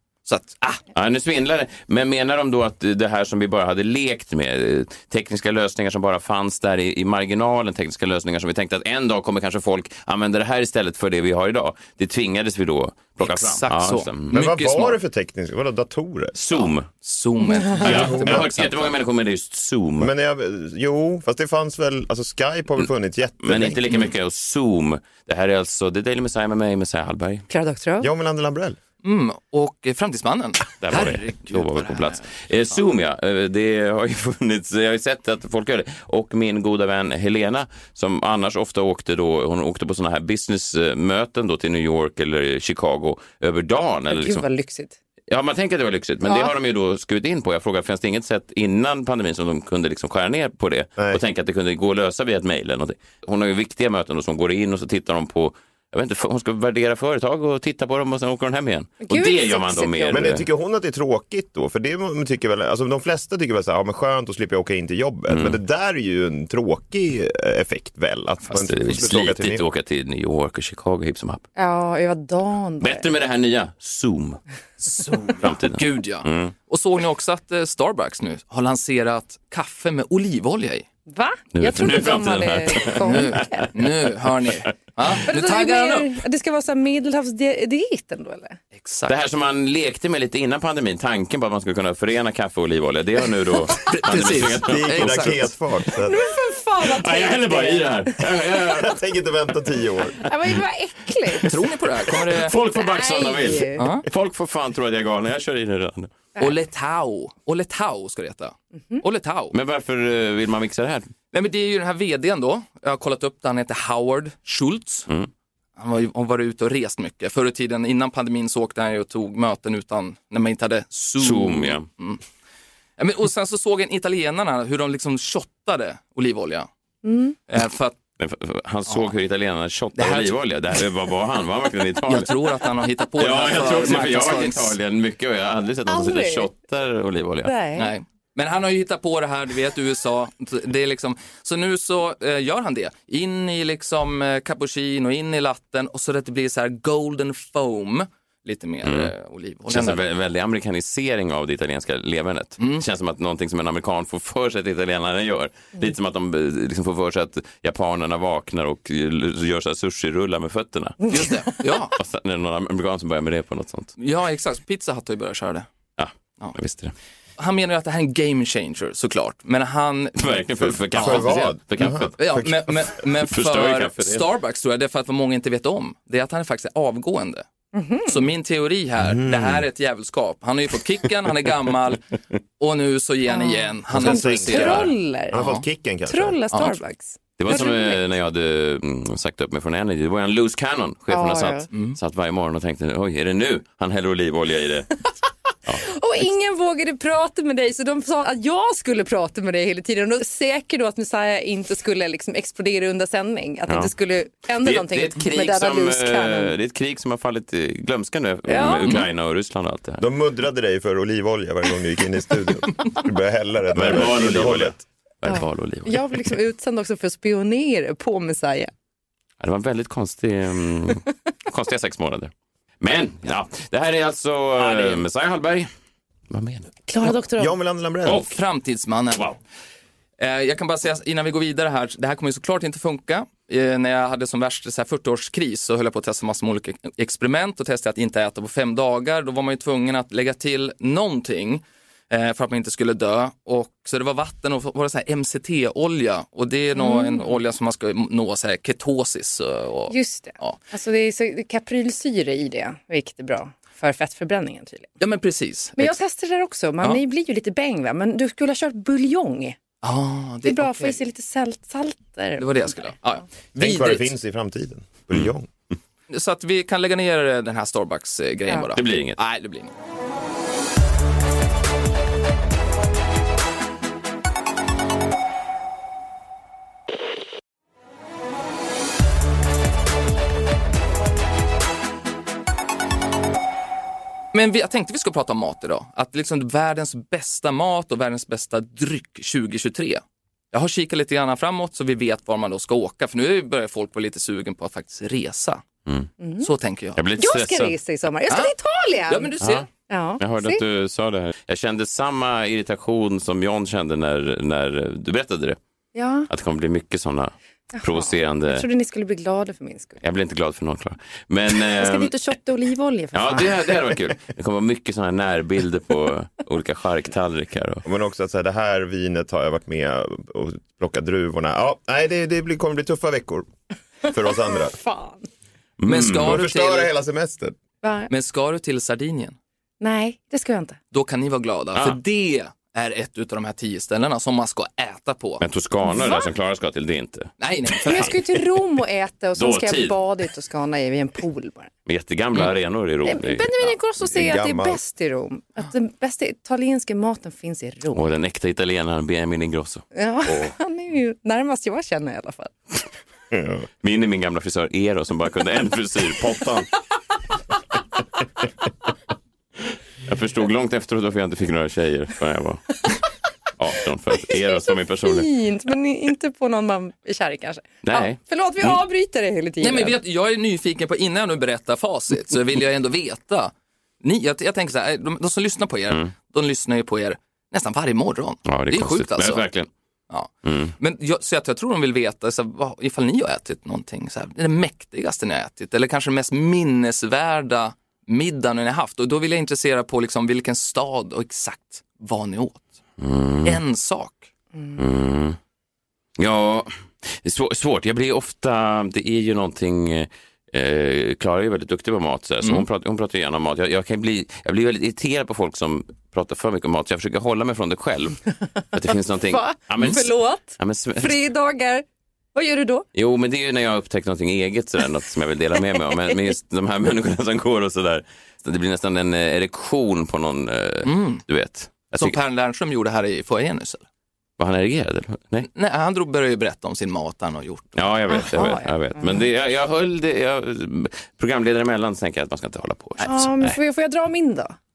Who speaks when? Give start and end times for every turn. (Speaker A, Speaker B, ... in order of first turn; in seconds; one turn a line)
Speaker A: 0.2-0.8
Speaker B: 0.9-14.3
Speaker A: 13.2-15.0
Speaker C: 14.3-16.4
Speaker B: 16.3-16.9
Speaker A: 16.5-18.9
Speaker B: 17.8-20.1
Speaker C: 17.8-18.5
Speaker C: 20.0-23.8
Speaker B: 23.4-27.4
Speaker D: 27.5-28.1
Speaker C: 28.0-28.8
Speaker A: 29.0-32.8
Speaker B: 30.8-44.4
Speaker D: 44.1-44.9
Speaker B: 45.3-60.4
Speaker D: 46.2-46.5
Speaker D: 59.0-60.3
Speaker C: 60.1-69.7
Speaker B: 65.3-65.6
Speaker B: 68.5-71.5
Speaker D: 71.6-73.1
Speaker B: 72.8-74.4
Speaker A: 74.8-80.9
Speaker B: 75.4-76.5
Speaker D: 81.1-83.7
Speaker B: 81.5-83.9
Speaker A: 83.0-86.1
Speaker D: 85.2-88.6
Speaker A: 88.7-89.2
Speaker B: 89.1-95.5
Speaker A: 93.7-95.5
Speaker C: 94.6-96.2
Speaker D: 95.9-98.1
Speaker B: 96.8-99.0
Speaker C: 98.7-100.3
Speaker D: 100.2-101.6
Speaker B: 101.3-106.1
Speaker A: 101.4-102.5
Speaker D: 102.7-103.9
Speaker A: 103.8-104.1
Speaker A: 106.4-109.5
Speaker B: 109.5-111.1
Speaker A: 111.3-115.1
Speaker A: 115.8-122.2
Speaker B: 121.2-121.9
Speaker A: 123.0-126.7
Speaker D: 127.0-127.4
Speaker A: 127.5-127.9
Speaker B: 128.2-132.4
Speaker A: 129.9-130.4
Speaker A: 132.1-134.8
Speaker B: 133.2-137.6
Speaker D: 135.9-136.5
Speaker D: 137.4-137.9
Speaker A: 137.8-150.0
Speaker B: 148.8-149.1
Speaker B: 149.7-161.2
Speaker A: 152.6-152.8
Speaker A: 161.1-161.9
Speaker B: 161.8-163.9
Speaker A: 164.0-165.7
Speaker B: 166.0-166.9
Speaker A: 167.4-170.4
Speaker B: 170.2-174.3
Speaker C: 170.9-172.4
Speaker A: 170.9-171.3
Speaker A: 172.2-177.4
Speaker D: 177.7-178.2
Speaker A: 178.1-182.0
Speaker C: 179.0-179.6
Speaker A: 182.6-185.6
Speaker D: 183.3-185.5
Speaker C: 183.9-186.6
Speaker D: 186.1-188.0
Speaker A: 186.5-186.8
Speaker B: 187.4-195.0
Speaker D: 191.1-191.7
Speaker A: 191.7-192.0
Speaker D: 195.8-206.5
Speaker B: 204.6-210.1
Speaker D: 208.5-209.1
Speaker C: 210.0-214.8
Speaker B: 213.7-216.2
Speaker D: 215.2-218.7
Speaker B: 219.4-225.7
Speaker A: 224.6-225.0
Speaker B: 226.3-226.7
Speaker D: 226.9-227.5
Speaker C: 227.0-228.3
Speaker A: 228.1-229.4
Speaker A: 230.2-250.6
Speaker D: 246.7-247.4
Speaker D: 249.9-254.9
Speaker A: 255.0-255.9
Speaker D: 255.8-259.6
Speaker A: 259.8-261.0
Speaker D: 260.4-262.9
Speaker A: 262.4-264.1
Speaker C: 263.6-265.5
Speaker A: 266.1-269.7
Speaker B: 268.7-269.2
Speaker A: 284.3-295.6
Speaker D: 296.2-296.5
Speaker A: 296.4-297.0
Speaker B: 297.0-297.8
Speaker D: 297.2-299.4
Speaker A: 298.3-298.5
Speaker A: 299.1-299.7
Speaker B: 299.4-299.7
Speaker D: 299.9-300.6
Speaker B: 300.2-305.6
Speaker D: 305.9-306.3
Speaker B: 306.3-308.7
Speaker D: 307.8-310.0
Speaker B: 310.0-312.1
Speaker D: 311.6-313.7
Speaker B: 313.1-317.9
Speaker C: 317.9-323.5
Speaker C: 324.0-324.8
Speaker D: 324.6-325.2
Speaker B: 325.8-326.5
Speaker A: 325.9-326.9
Speaker C: 326.2-327.6
Speaker D: 327.8-328.1
Speaker A: 328.1-329.4
Speaker D: 329.8-330.8
Speaker A: 330.9-335.4
Speaker B: 335.4-338.1
Speaker D: 335.9-336.3
Speaker A: 337.4-338.2
Speaker D: 337.9-341.7
Speaker B: 339.4-340.0
Speaker B: 341.9-343.7
Speaker D: 343.0-348.0
Speaker C: 344.0-344.8
Speaker B: 347.9-350.5
Speaker D: 349.9-352.5
Speaker C: 353.3-353.6
Speaker B: 353.8-356.7
Speaker B: 360.0-362.9
Speaker B: 363.6-365.3
Speaker D: 364.3-370.0
Speaker B: 367.8-368.8
Speaker A: 369.6-379.5
Speaker B: 378.5-379.7
Speaker A: 380.1-392.7
Speaker B: 380.4-380.7
Speaker B: 393.0-393.6
Speaker A: 393.4-394.3
Speaker B: 394.8-395.4
Speaker B: 396.2-408.2
Speaker B: 408.7-411.2
Speaker D: 409.3-412.9
Speaker B: 412.9-422.1
Speaker A: 420.9-421.2
Speaker A: 421.9-423.8
Speaker B: 424.4-425.5
Speaker A: 425.5-427.9
Speaker B: 427.8-433.6
Speaker D: 428.1-429.2
Speaker D: 433.0-434.6